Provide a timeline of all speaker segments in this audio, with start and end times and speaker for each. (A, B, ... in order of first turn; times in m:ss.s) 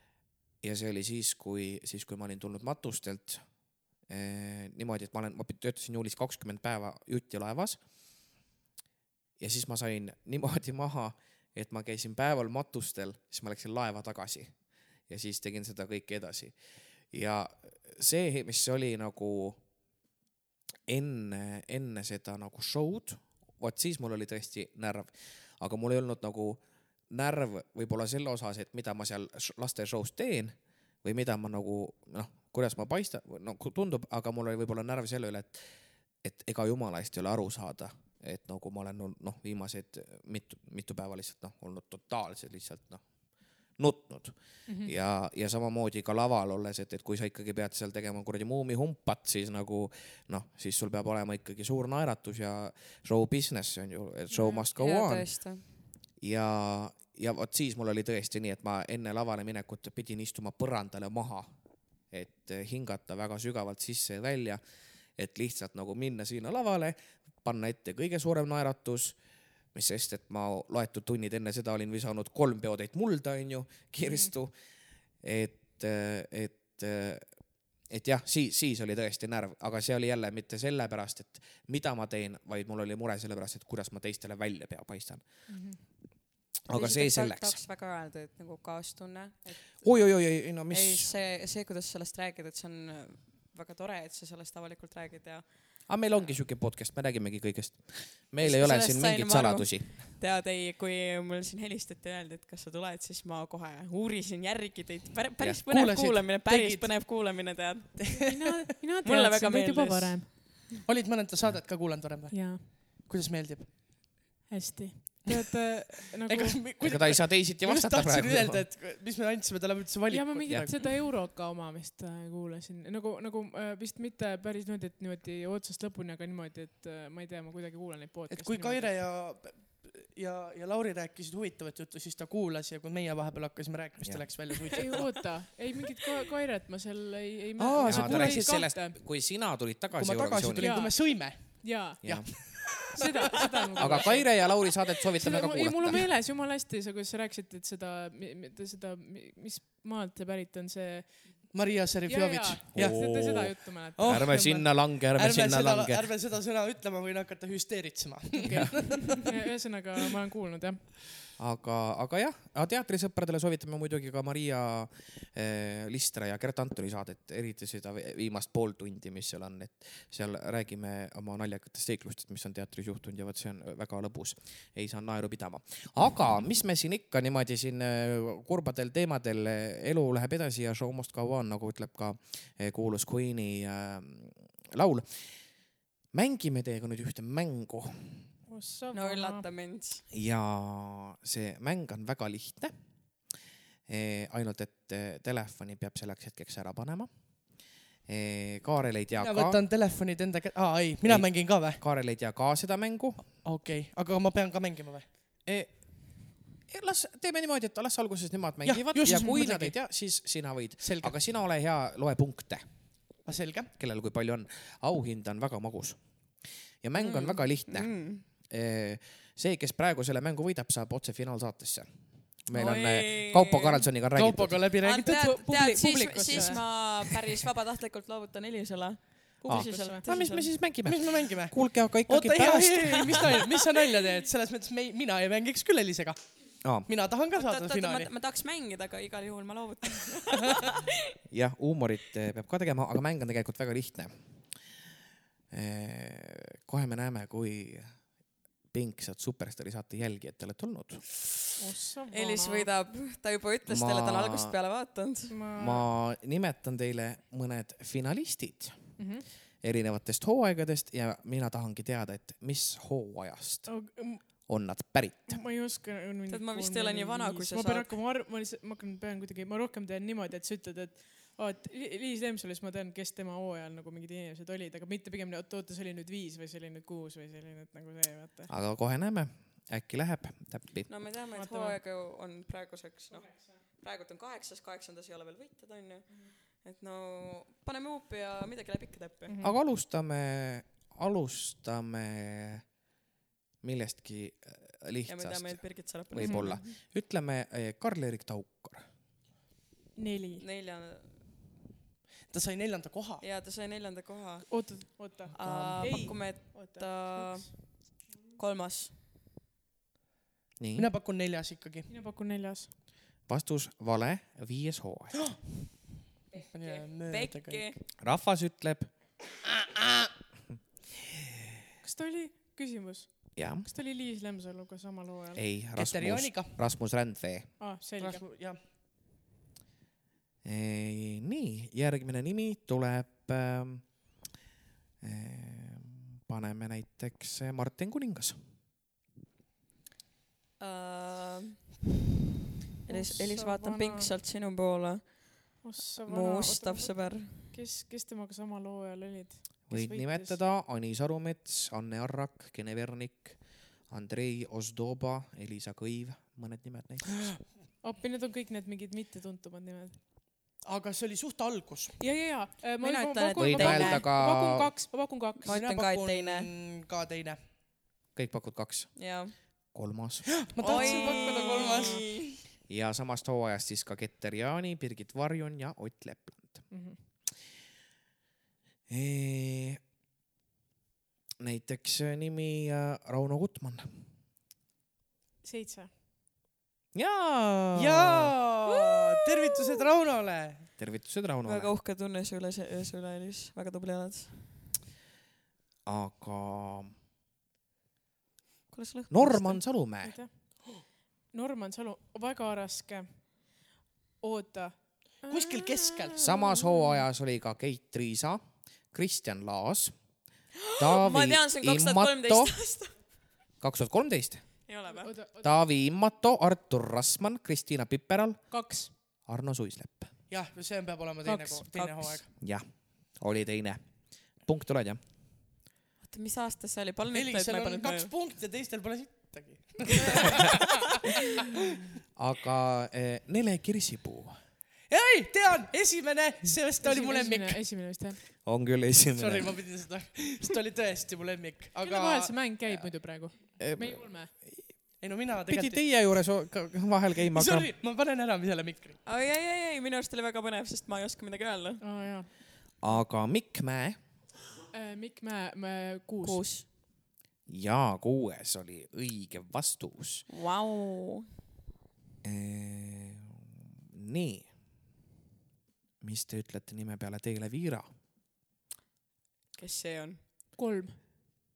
0:00.6-0:07.8 A
0:09.4-0:16.6 A
0:17.1-0:19.6 A
0:20.9-0:55.5 A
0:44.7-0:44.9 B
0:54.3-0:54.7 B
0:54.8-0:55.7 C
0:56.2-1:01.6 A
1:02.1-1:04.6 A
1:05.2-1:09.2 A
1:09.7-1:14.6 A
1:14.0-1:14.3 B
1:15.2-1:25.9 A
1:25.5-1:25.8 B
1:26.7-1:27.6 A
1:26.7-1:36.4 C
1:29.8-1:31.1 A
1:35.9-1:40.0 A
1:38.4-1:48.0 C
1:45.7-1:47.0 D
1:48.0-1:48.6 D
1:48.1-1:50.3 B
1:49.0-1:50.4 C
1:50.8-1:54.1 D
1:52.3-1:52.6 B
1:54.5-1:56.6 B
1:56.3-2:00.7 D
1:56.8-1:58.7 A
2:00.1-2:09.0 B
2:08.3-2:15.2 D
2:14.0-2:14.4 A
2:14.8-2:19.0 B
2:17.6-2:20.9 A
2:17.7-2:18.6 D
2:20.0-2:23.0 D
2:20.6-2:24.7 B
2:22.0-2:22.5 A
2:23.8-2:26.1 A
2:23.8-2:24.1 D
2:25.2-2:31.5 B
2:31.5-2:33.1 D
2:32.1-2:34.3 B
2:32.7-2:36.1 A
2:34.0-2:38.8 D
2:38.4-2:40.9 B
2:38.5-2:38.9 A
2:41.4-3:05.5 A
3:06.1-3:08.3 A
3:08.5-3:09.4 B
3:08.9-3:10.0 C
3:10.1-3:12.7 A
3:13.9-3:19.6 A
3:19.2-3:21.8 D
3:21.0-3:23.4 A
3:23.3-3:25.1 D
3:25.4-3:33.2 A
3:28.6-3:30.2 D
3:30.8-3:31.2 D
3:33.2-3:33.7 D
3:33.8-3:44.6 A
3:37.0-3:38.2 C
3:42.5-3:43.9 C
3:44.2-3:45.4 D
3:44.8-3:50.6 C
3:45.1-3:46.6 B
3:49.4-3:50.1 B
3:49.5-3:53.2 A
3:50.8-3:58.1 D
3:56.6-3:56.9 A
3:57.3-4:00.8 C
4:01.3-4:04.6 A
4:05.5-4:08.1 A
4:08.7-4:11.1 A
4:11.6-4:12.7 B
4:12.1-4:15.4 C
4:13.7-4:14.5 A
4:15.3-4:15.9 B
4:15.6-4:19.0 A
4:19.0-4:19.2 B
4:19.6-4:25.4 A
4:23.7-4:24.5 B
4:25.3-4:38.5 B
4:26.3-4:28.0 C
4:38.5-4:40.9 A
4:40.9-4:49.4 C
4:41.3-4:41.8 B
4:43.1-4:43.5 B
4:49.3-4:49.6 B
4:49.4-4:52.7 A
4:53.6-4:58.9 A
4:55.1-4:56.6 C
4:56.2-4:56.6 B
5:00.0-5:00.4 B
5:00.4-5:01.3 C
5:02.3-5:03.2 D
5:03.2-5:09.0 C
5:04.5-5:07.9 B
5:05.4-5:06.0 D
5:10.6-5:10.9 A
5:10.8-5:11.9 D
5:11.9-5:12.7 B
5:13.3-5:15.4 A
5:16.3-5:17.8 C
5:16.5-5:17.8 D
5:18.0-5:19.0 A
5:21.8-5:25.4 B
5:23.4-5:23.7 A
5:25.4-5:27.7 A
5:25.8-5:26.5 D
5:27.6-5:28.2 B
5:28.0-5:28.6 D
5:30.4-5:34.1 A
5:35.0-5:38.4 A
5:40.6-5:41.7 C
5:42.9-5:47.5 C
5:42.9-5:44.1 B
5:45.6-5:50.4 B
5:49.7-5:57.5 A
5:57.8-6:00.0 B
6:00.6-6:02.0 D
6:02.0-6:05.5 B
6:02.8-6:04.1 C
6:03.4-6:04.7 A
6:05.4-6:06.5 C
6:05.5-6:07.4 D
6:08.2-6:10.4 A
6:09.0-6:09.7 C
6:10.5-6:12.0 D
6:10.6-6:12.0 B
6:10.6-6:12.4 C
6:12.7-6:16.7 A
6:16.7-6:17.0 B
6:18.9-6:19.8 A
6:21.4-6:24.1 A
6:25.4-6:25.9 B
6:26.9-6:28.3 A
6:27.8-6:30.7 D
6:28.7-6:29.1 C
6:30.8-6:31.7 A
6:31.4-6:34.6 C
6:35.9-6:36.9 A
6:38.7-6:39.7 C
6:39.1-6:40.2 A
6:40.0-6:43.6 B
6:44.2-6:46.9 B
6:45.2-6:46.2 D
6:46.2-6:50.2 A
6:50.7-6:53.0 C
6:50.8-6:52.7 A
6:53.6-6:54.7 A
6:54.7-6:55.1 C
6:54.8-6:55.6 B
6:55.4-7:00.2 A
6:58.5-6:58.9 B
7:00.3-7:02.3 D
7:01.2-7:02.2 B
7:02.4-7:05.0 A
7:06.0-7:08.1 C
7:07.1-7:10.6 D
7:12.2-7:14.4 A
7:14.9-7:17.6 D
7:16.8-7:18.2 B
7:18.4-7:19.7 A
7:19.1-7:22.6 D
7:21.8-7:24.3 B
7:23.6-7:24.8 A
7:25.0-7:25.8 D
7:25.5-7:27.7 A
7:27.3-7:29.0 D
7:29.0-7:31.8 C
7:31.8-7:32.3 B
7:32.8-7:34.0 A
7:34.7-7:36.4 B
7:36.2-7:36.7 C
7:37.5-7:40.3 A
7:40.3-7:41.3 C
7:42.2-7:44.5 A
7:46.0-7:47.9 A
7:49.6-7:50.2 C
7:50.5-7:51.0 B